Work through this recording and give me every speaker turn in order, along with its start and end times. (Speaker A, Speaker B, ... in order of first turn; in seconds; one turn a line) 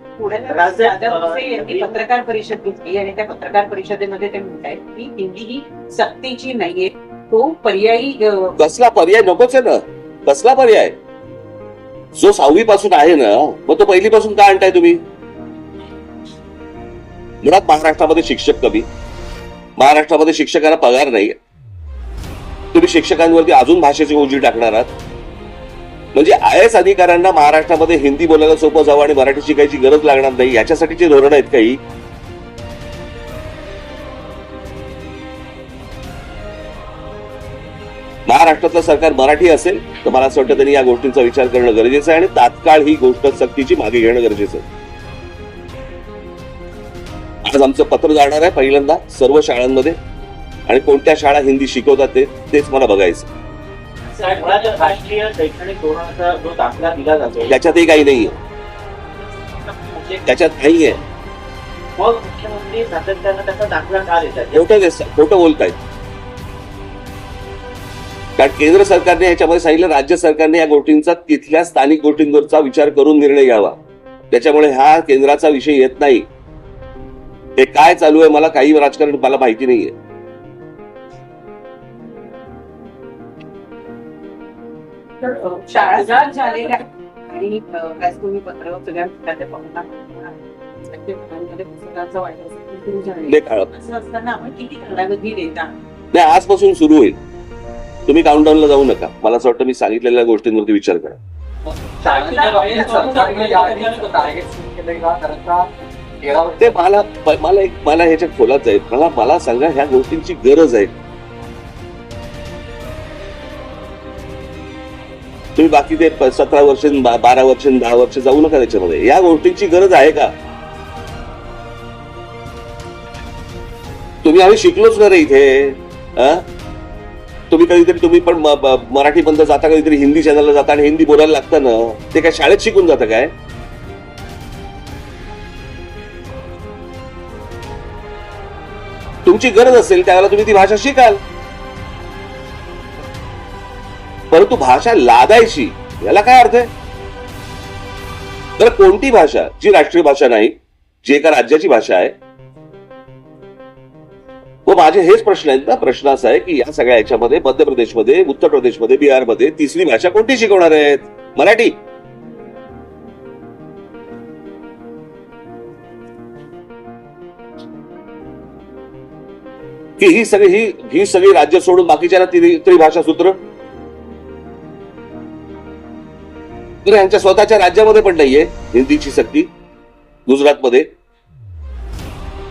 Speaker A: 0.2-8.6
Speaker B: 1.4-1.8
Speaker C: 8.6-10.9
Speaker C: 12.2-15.0
Speaker C: 17.4-18.9
Speaker C: 19.8-21.4
Speaker C: 22.7-24.9
Speaker C: 26.1-31.8
Speaker C: 38.3-44.7
Speaker C: 47.5-50.0
Speaker C: 50.7-53.3
Speaker B: 54.1-57.6
Speaker C: 57.5-58.4
Speaker B: 59.7-60.3
Speaker C: 60.2-61.0
Speaker B: 62.0-64.5
Speaker C: 64.5-65.8
Speaker C: 68.4-73.8
Speaker C: 74.3-76.3
Speaker C: 77.6-79.9
Speaker A: 85.2-95.8
Speaker C: 93.3-93.7
Speaker C: 96.1-97.2
Speaker C: 98.1-101.2
Speaker B: 102.0-106.7
Speaker A: 102.0-104.3
Speaker C: 106.6-110.9
Speaker C: 115.6-120.3
Speaker C: 124.2-126.4
Speaker C: 127.5-133.3
Speaker C: 139.3-141.2
Speaker C: 144.3-146.7
Speaker C: 148.6-152.2
Speaker C: 154.7-161.8
Speaker C: 170.0-173.4
Speaker C: 176.8-179.5
Speaker C: 180.3-180.9